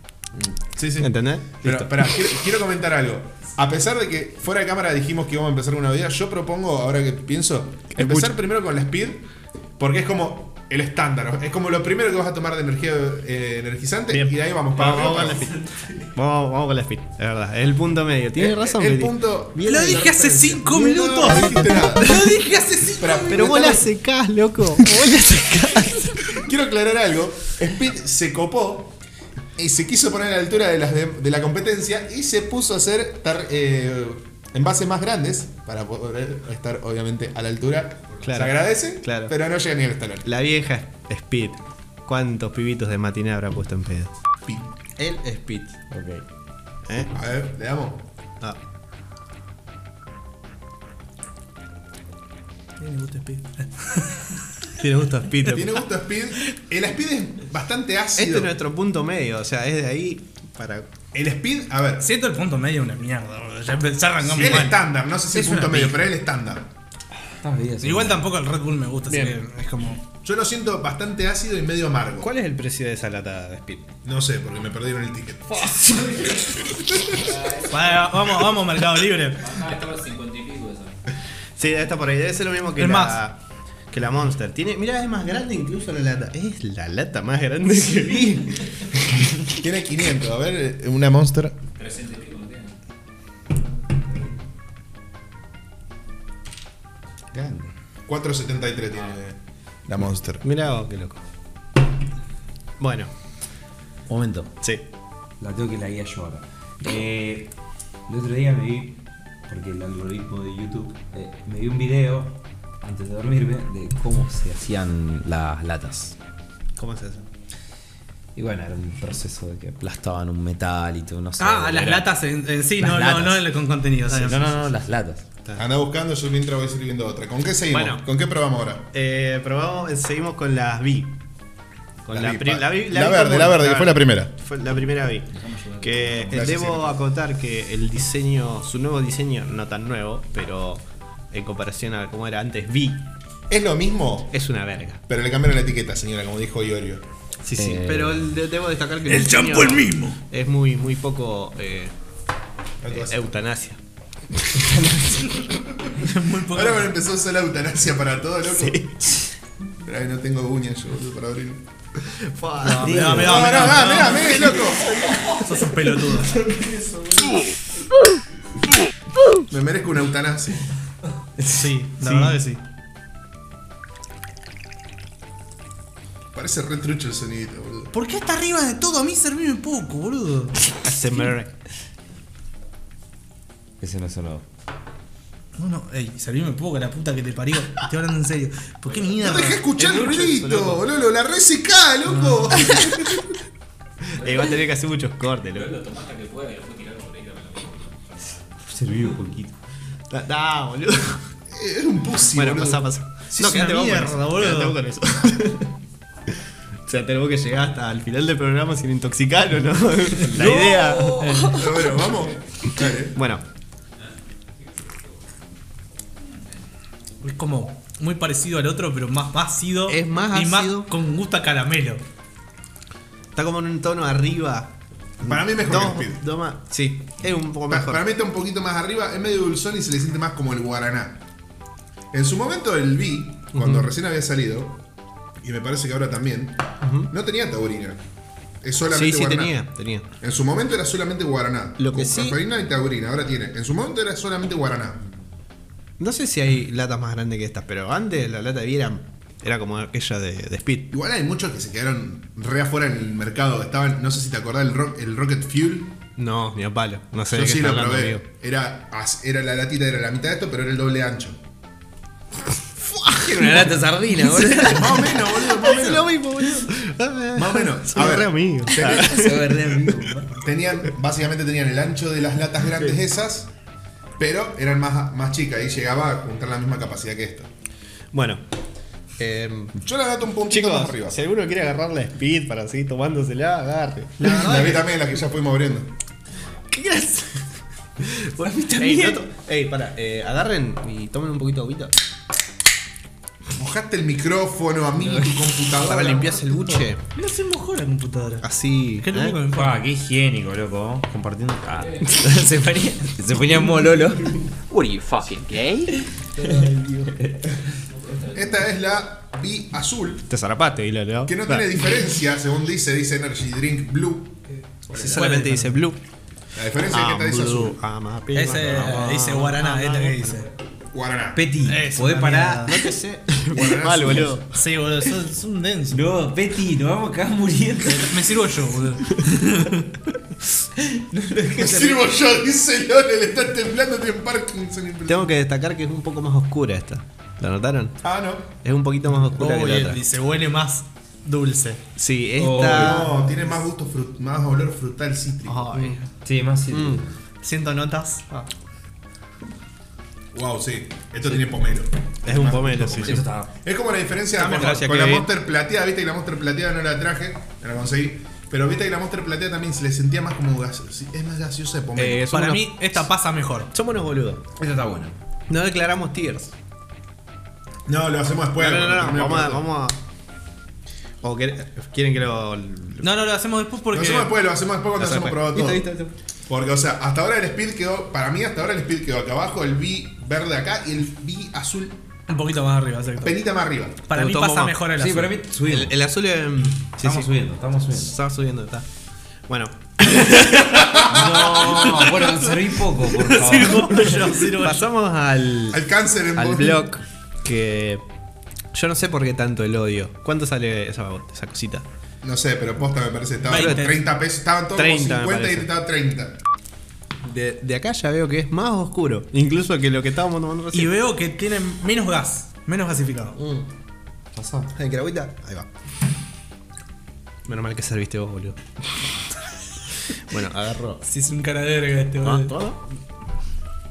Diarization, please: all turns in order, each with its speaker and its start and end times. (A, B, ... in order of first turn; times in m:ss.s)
0:00.4-0:09.2 A
0:01.0-0:02.1 B
0:07.9-0:08.3 B
0:09.8-0:15.5 A
0:14.1-0:15.6 B
0:15.0-0:16.1 C
0:16.1-0:22.4 B
0:18.4-0:22.3 A
0:19.6-0:23.7 D
0:23.0-0:23.8 A
0:23.3-0:26.4 B
0:26.2-0:29.0 A
0:29.6-0:40.2 A
0:38.2-0:39.3 B
0:40.2-0:44.1 B
0:45.0-0:46.2 B
0:46.9-0:47.1 B
0:47.1-0:48.0 A
0:52.8-0:54.4 D
0:54.7-0:55.8 B
0:55.4-0:58.5 A
0:58.2-1:00.9 B
1:01.1-1:02.0 A
1:02.0-1:04.8 D
1:04.2-1:06.7 A
1:05.4-1:05.9 E
1:07.4-1:08.2 E
1:07.8-1:10.0 D
1:09.1-1:09.4 B
1:10.2-1:12.3 A
1:12.2-1:13.9 B
1:14.0-1:15.8 A
1:15.5-1:16.3 B
1:15.9-1:16.6 C
1:17.1-1:18.4 C
1:17.7-1:19.6 D
1:19.4-1:21.0 C
1:21.6-1:23.4 B
1:22.8-1:23.2 D
1:23.9-1:29.4 B
1:29.5-1:31.6 A
1:31.8-1:32.7 C
1:37.3-1:37.7 E
1:38.1-1:40.4 A
1:40.4-1:41.2 B
1:42.8-1:43.1 B
1:44.1-1:44.5 E
1:45.4-1:47.5 E
1:48.1-1:56.2 E
1:56.8-1:57.3 B
1:58.3-2:02.1 E
2:01.4-2:04.5 D
2:02.8-2:03.5 E
2:04.1-2:05.2 E
2:05.6-2:08.8 A
2:07.7-2:08.1 B
2:08.9-2:11.2 B
2:12.0-2:15.3 B
2:12.1-2:14.3 A
2:15.3-2:16.6 C
2:15.8-2:23.1 B
2:16.3-2:17.0 A
2:23.5-2:24.3 A
2:24.3-2:25.0 B
2:25.1-2:27.0 A
2:27.4-2:31.9 B
2:27.6-2:28.3 E
2:29.1-2:30.2 D
2:32.8-2:33.3 A
2:32.9-2:33.8 B
2:34.4-2:35.3 B
2:35.8-2:39.1 A
2:36.0-2:36.9 D
2:38.5-2:39.2 B
2:39.8-2:41.6 A
2:42.1-2:45.4 B
2:42.6-2:44.6 D
2:42.7-2:43.6 E
2:43.1-2:44.9 A
2:45.3-2:46.4 D
2:46.4-2:47.4 B
2:49.5-2:50.7 A
2:51.4-2:51.6 E
2:51.5-2:52.6 D
2:56.3-2:57.9 A
2:57.9-3:00.6 D
3:00.7-3:01.5 B
3:03.8-3:04.4 E
3:05.6-3:09.6 D
3:09.1-3:13.3 A
3:09.8-3:10.8 B
3:12.1-3:12.4 D
3:12.6-3:13.0 B
3:14.1-3:15.7 B
3:14.2-3:14.6 C
3:15.4-3:18.6 C
3:18.7-3:19.5 E
3:20.1-3:21.2 B
3:21.5-3:22.9 A
3:22.3-3:25.7 B
3:23.3-3:24.8 D
3:26.8-3:31.9 B
3:30.3-3:31.5 E
3:31.2-3:31.5 D
3:31.5-3:33.2 A
3:33.1-3:33.4 B
3:37.2-3:42.0 D
3:39.9-3:40.9 B
3:43.3-3:48.0 B
3:45.2-3:46.2 A
3:47.7-3:51.2 A
3:52.1-3:54.8 A
3:53.5-3:53.8 B
3:55.4-3:58.0 A
3:56.8-3:57.1 B
3:58.6-3:59.6 A
3:58.9-4:00.1 B
4:00.2-4:05.0 A
4:01.8-4:02.4 B
4:06.0-4:10.9 B
4:10.9-4:15.9 A
4:16.2-4:18.2 B
4:17.3-4:21.4 A
4:22.8-4:30.1 B
4:23.1-4:25.2 E
4:24.6-4:26.1 A
4:27.3-4:29.4 A
4:28.8-4:30.5 E
4:30.4-4:33.5 A
4:34.2-4:37.5 A
4:38.1-4:38.4 B
4:39.2-4:39.8 B
4:39.8-4:41.2 A
4:40.5-4:44.6 B
4:44.2-4:44.9 D
4:44.2-4:45.9 A
4:46.7-4:51.9 B
4:48.7-4:49.2 E
4:53.5-4:56.5 A
4:55.0-4:55.3 E
4:55.7-4:57.0 B
4:57.1-4:58.4 D
4:58.4-4:59.4 B
4:59.0-4:59.8 D
4:59.5-5:04.4 E
5:01.7-5:02.2 C
5:04.7-5:05.9 C
5:05.9-5:07.6 E
5:06.4-5:07.1 B
5:07.9-5:08.5 C
5:08.3-5:10.2 A
5:10.3-5:11.9 B
5:11.2-5:14.4 A
5:14.9-5:15.2 A
5:14.9-5:16.0 B
5:15.0-5:15.8 D
5:16.5-5:17.8 A
5:16.9-5:20.4 B
5:18.3-5:20.5 D
5:18.7-5:19.1 E
5:20.9-5:21.4 A
5:21.3-5:22.8 E
5:21.6-5:22.8 D
5:22.6-5:24.6 B
5:23.5-5:24.4 A
5:24.5-5:26.0 D
5:25.9-5:28.3 E
5:27.8-5:29.9 D
5:30.8-5:32.1 E
5:31.5-5:35.3 A
5:35.0-5:38.0 B
5:38.0-5:38.5 A
5:38.6-5:40.0 B
5:39.4-5:41.8 D
5:42.0-5:43.2 B
5:42.4-5:43.0 E
5:42.5-5:45.9 A
5:45.5-5:46.0 D
5:45.6-5:46.0 B
5:46.2-5:47.2 E
5:46.7-5:47.0 B
5:47.4-5:48.5 D
5:50.3-6:02.3 A
5:52.2-5:53.3 B
5:53.0-5:53.5 E
5:54.4-5:54.8 D
5:54.4-5:55.3 B
6:02.0-6:02.8 B
6:02.3-6:03.7 D
6:03.7-6:04.4 B
6:04.6-6:05.2 E
6:05.5-6:06.5 B
6:07.8-6:09.7 A
6:08.6-6:10.0 B
6:11.2-6:13.2 B
6:13.0-6:14.4 D
6:13.9-6:15.8 A
6:15.0-6:16.1 B
6:16.5-6:22.0 A
6:22.3-6:23.4 D
6:23.2-6:24.0 A
6:24.0-6:25.4 D
6:24.1-6:24.8 B
6:24.9-6:26.0 E
6:25.6-6:27.3 B
6:27.0-6:28.2 E
6:27.9-6:28.8 B
6:29.5-6:32.0 B
6:30.6-6:34.2 E
6:30.8-6:31.6 A
6:32.0-6:34.9 D
6:33.9-6:35.8 B
6:35.7-6:36.9 A
6:36.3-6:38.0 B
6:38.7-6:41.8 B
6:42.2-6:46.4 A
6:43.4-6:44.0 D
6:43.5-6:43.9 B
6:44.7-6:45.7 B
6:47.2-6:50.9 B
6:50.7-6:53.4 D
6:53.4-6:53.7 B
6:54.3-6:54.7 E
6:54.7-6:55.7 B
6:57.4-6:58.6 B
7:00.1-7:01.0 B
7:01.0-7:02.5 D
7:02.2-7:02.9 B